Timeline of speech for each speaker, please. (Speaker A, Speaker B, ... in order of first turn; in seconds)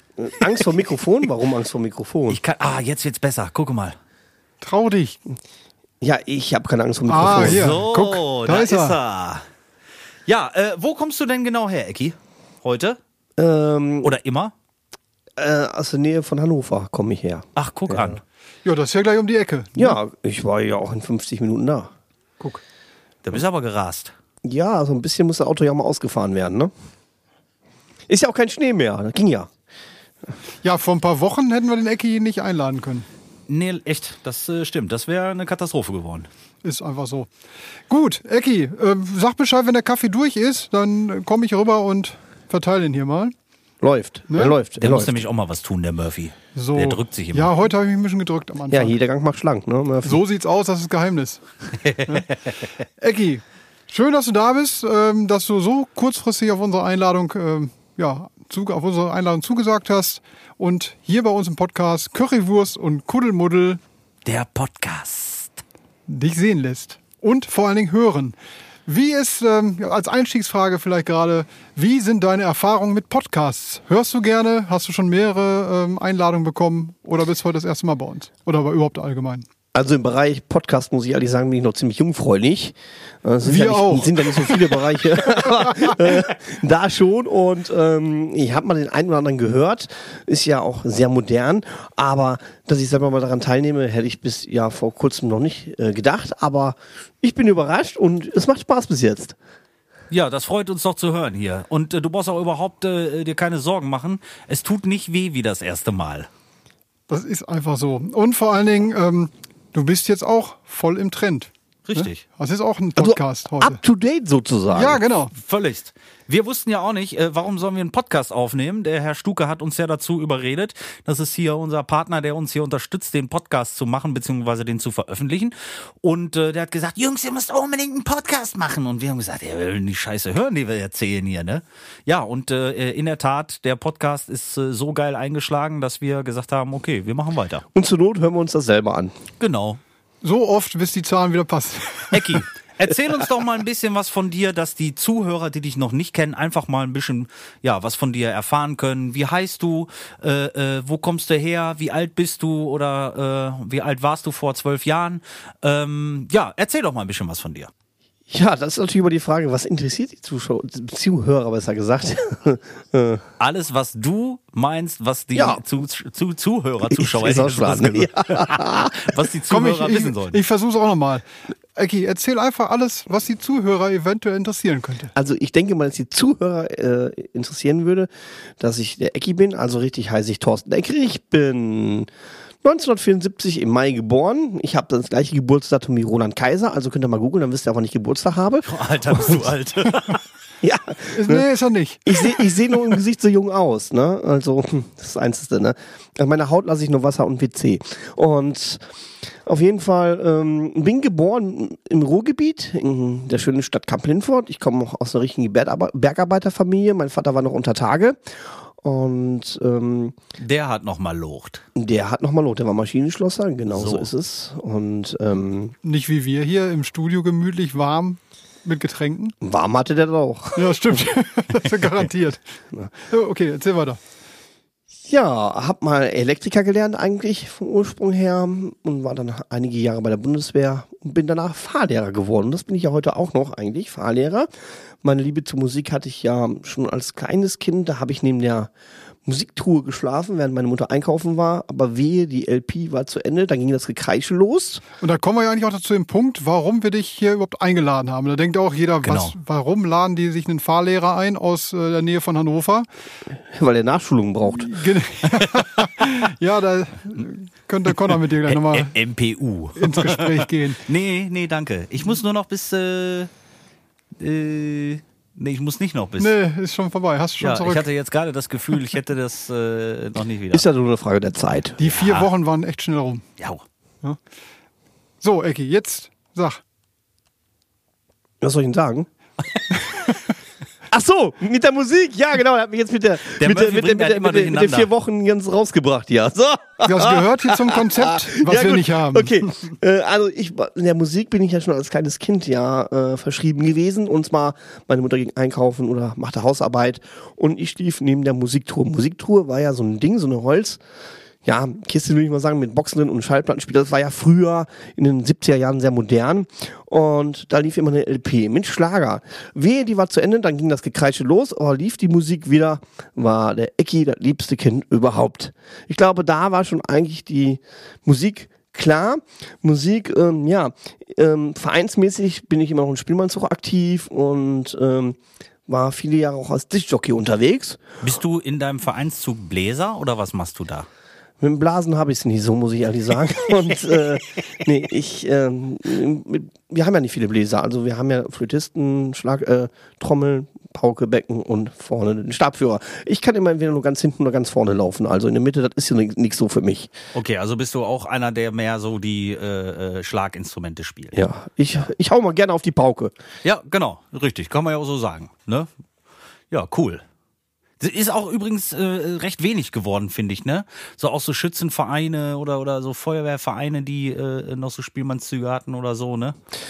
Speaker A: 0.2-2.4, 6.0-7.8, 13.4-14.2, 15.4-18.2, 19.8-21.9, 24.4-26.7, 28.1-29.5, 43.8-45.2, 48.7-50.2, 79.7-99.4, 113.0-115.0, 137.7-139.1, 158.3-163.3, 165.3-165.6, 166.9-169.3, 175.1-182.1, 182.6-189.5, 190.6-191.5, 192.1-210.2, 211.8-215.8, 219.4-221.0, 225.0-234.5, 235.0-238.7, 239.2-244.8, 253.3-254.8, 270.5-271.8, 278.4-279.1, 280.9-300.8, 301.4-327.8, 331.4-346.9, 351.1-353.1
Speaker B: 2.3-4.0, 7.2-9.4, 10.3-13.0, 14.0-14.5, 17.6-18.2, 23.2-24.1, 33.5-36.3, 44.8-47.5, 51.9-52.4, 64.2-65.6, 100.1-106.3, 111.8-112.2, 115.3-137.6, 139.4-139.8, 142.1-157.7, 163.4-170.4, 188.7-190.2, 210.4-211.6, 213.7-214.1, 249.0-249.4, 255.3-255.7, 258.4-263.3, 264.2-266.3, 267.4-270.7, 271.8-272.3, 283.3-284.9, 328.0-330.9, 347.1-351.2, 353.4-355.7, 356.5-357.0, 357.8-366.4
Speaker C: 4.6-5.2, 7.1-9.0, 18.6-20.0, 30.6-33.1, 36.6-37.3, 37.9-43.3, 44.3-44.6, 46.5-48.9, 50.0-51.4, 53.0-63.8, 66.1-68.3, 68.9-79.5, 83.5-84.6, 107.1-113.8, 114.7-115.3, 140.2-142.4, 169.5-171.2, 171.8-175.1, 191.1-192.7, 215.8-219.4, 220.6-222.4, 223.1-224.0, 245.0-252.9, 254.5-259.0, 259.8-260.8, 266.2-267.9, 271.8-273.2, 275.2-276.6, 286.9-289.5